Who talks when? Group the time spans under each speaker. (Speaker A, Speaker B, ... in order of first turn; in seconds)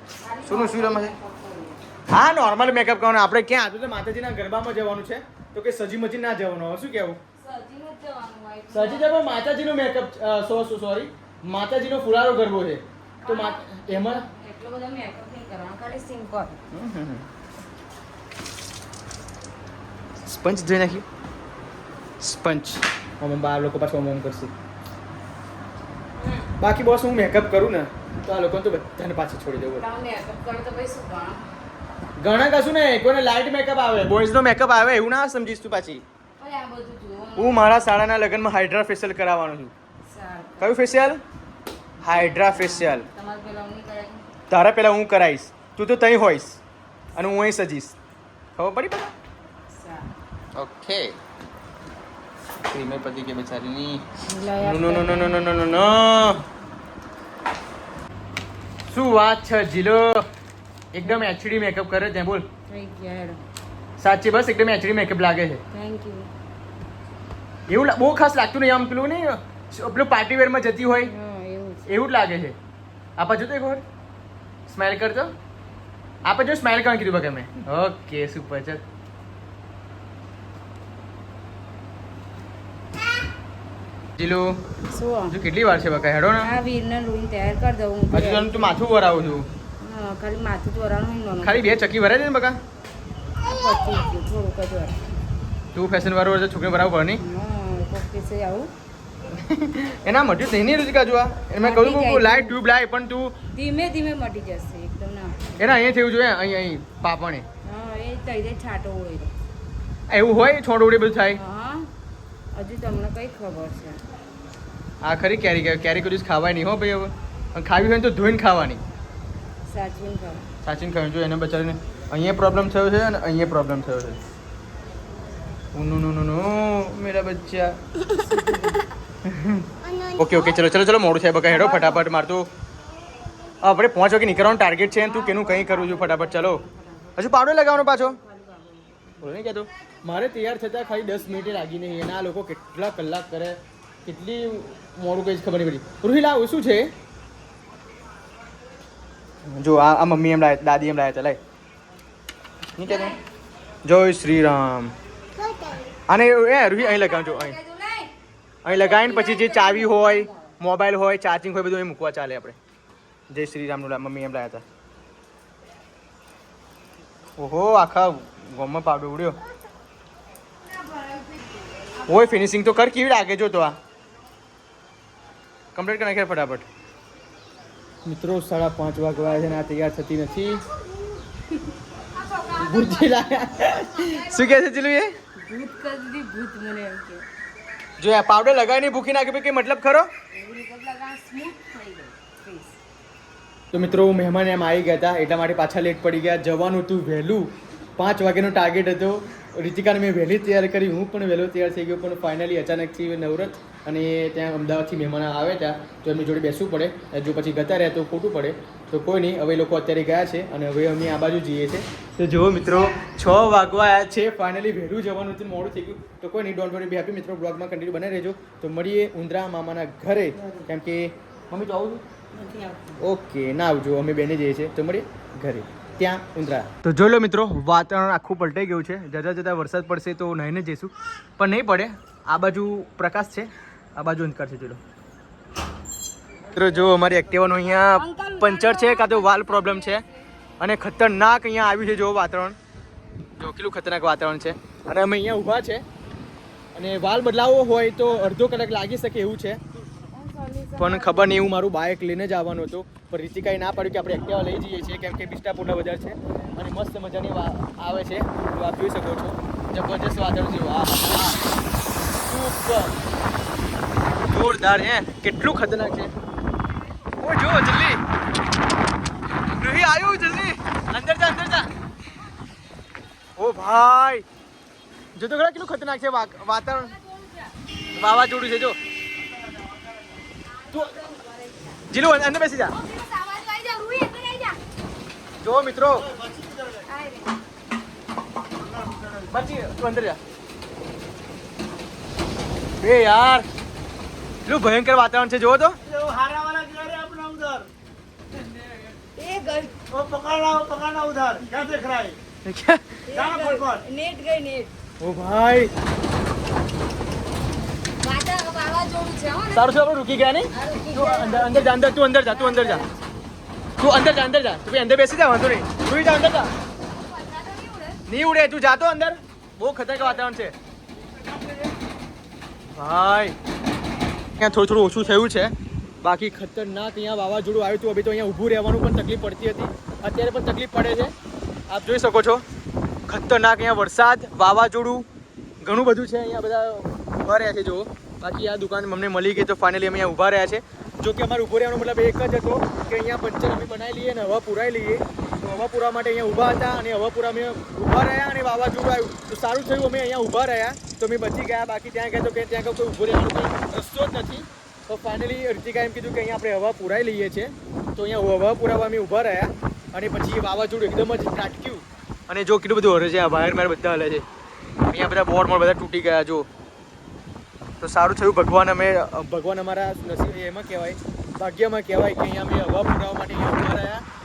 Speaker A: 0.2-1.8, 7.4-9.5, 13.2-16.6, 26.2-26.5, 29.8-31.4, 36.4-37.9, 40.1-41.0, 42.0-44.2, 49.7-50.1, 54.2-55.4, 62.7-63.4, 65.7-66.3, 71.0-71.9, 84.9-85.4, 86.4-88.8, 89.8-91.7, 93.4-95.2, 97.2-98.7, 101.6-102.6, 103.5-105.5, 107.6-109.3, 111.3-111.9, 112.5-114.0, 119.7-120.5, 128.1-128.8, 131.5-132.1, 134.9-139.2, 152.8-153.2, 155.4-155.8, 156.7-158.1, 158.7-160.3, 170.7-172.2, 181.3-183.2, 184.1-184.4, 185.4-187.3, 190.3-192.8, 222.3-223.0, 237.9-240.3, 250.1-251.4, 276.8-277.5, 280.6-281.8, 282.7-284.6, 286.9-287.4, 299.2-299.8, 303.1-304.7, 308.0-309.7, 310.5-313.1, 317.0-318.0
Speaker B: 0.5-1.1, 2.1-7.2, 8.7-14.2, 16.7-17.3, 20.2-21.1, 22.2-24.5, 26.6-29.9, 32.2-36.0, 37.4-39.7, 40.6-41.2, 42.0-43.1, 44.5-46.6, 47.2-48.0, 48.6-49.1, 50.6-51.2, 52.7-54.0, 54.6-56.4, 58.9-60.3, 60.9-62.5, 64.0-65.6, 67.7-71.1, 71.9-72.6, 73.2-73.8, 74.7-75.3, 76.2-78.8, 84.2-84.6, 85.3-86.5, 88.1-89.5, 91.4-92.6, 95.8-97.2, 99.3-103.4, 105.6-107.5, 110.1-111.4, 115.0-118.8, 120.6-124.2, 125.7-127.8, 129.2-132.5, 133.6-136.6, 137.2-138.2, 139.2-146.9, 149.5-151.4, 152.8-153.2, 153.8-154.9, 156.1-157.6, 158.7-162.6, 163.3-164.6, 167.4-169.4, 172.1-173.8, 175.8-176.7, 178.1-180.6, 182.6-185.1, 188.0-190.1, 193.7-222.0, 223.0-234.8, 236.5-240.1, 240.6-242.6, 243.4-245.8, 246.8-249.6, 250.8-261.5, 262.2-263.0, 264.3-266.1, 267.2-268.0, 269.6-271.7, 273.4-274.2, 275.2-276.9, 277.9-278.8, 281.9-282.8, 285.4-286.1, 289.3-290.2, 292.8-293.5, 294.5-295.8, 302.4-303.0, 305.0-305.7, 309.5-312.8, 313.8-316.5, 318.1-320.5, 322.8-323.4, 324.4-331.1, 331.7-332.4, 333.1-335.1, 335.6-364.2, 364.9-366.5, 367.8-374.0
Speaker C: 279.5-279.9, 286.1-286.9, 288.5-289.4, 295.9-297.7, 299.9-302.2, 303.1-303.8, 321.1-321.7